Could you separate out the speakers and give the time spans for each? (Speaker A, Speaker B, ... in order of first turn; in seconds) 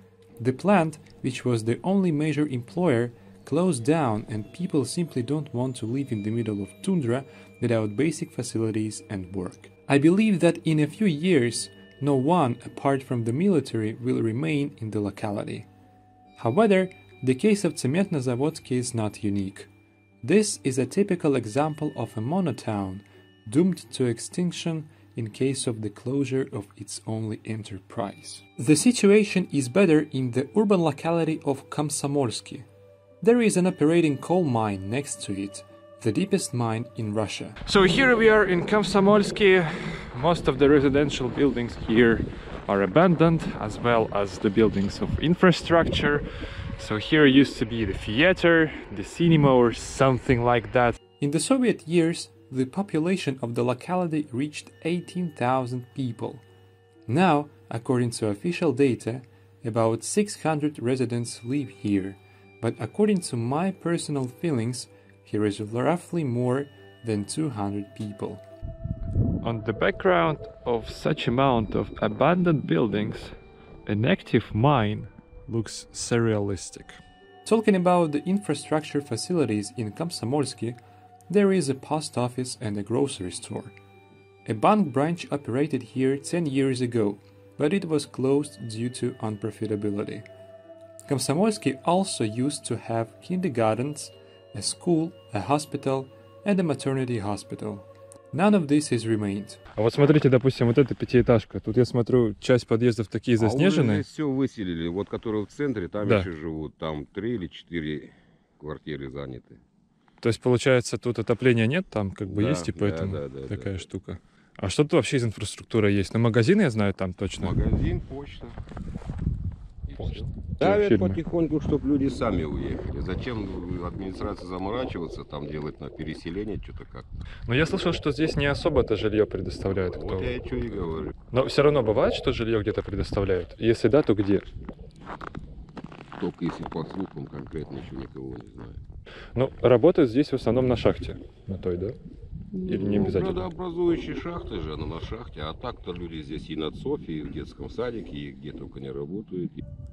Speaker A: 0.4-15.7, 16.4-19.7, 20.2-32.7, 33.2-37.6, 51.2-56.4, 57.1-68.4, 77.4-80.8, 81.3-83.7, 84.5-90.2, 91.1-99.6
Speaker B: 37.6-46.2, 46.8-51.0, 69.4-73.3, 73.8-77.0, 99.7-104.0, 106.0-106.3, 110.2-117.6, 120.0-121.2, 127.5-130.3, 131.3-134.4, 139.3-141.9, 142.6-143.5
Speaker C: 103.4-109.6, 112.2-113.8, 117.4-118.6, 119.9-127.1, 129.8-131.1, 136.2-138.8, 142.5-149.6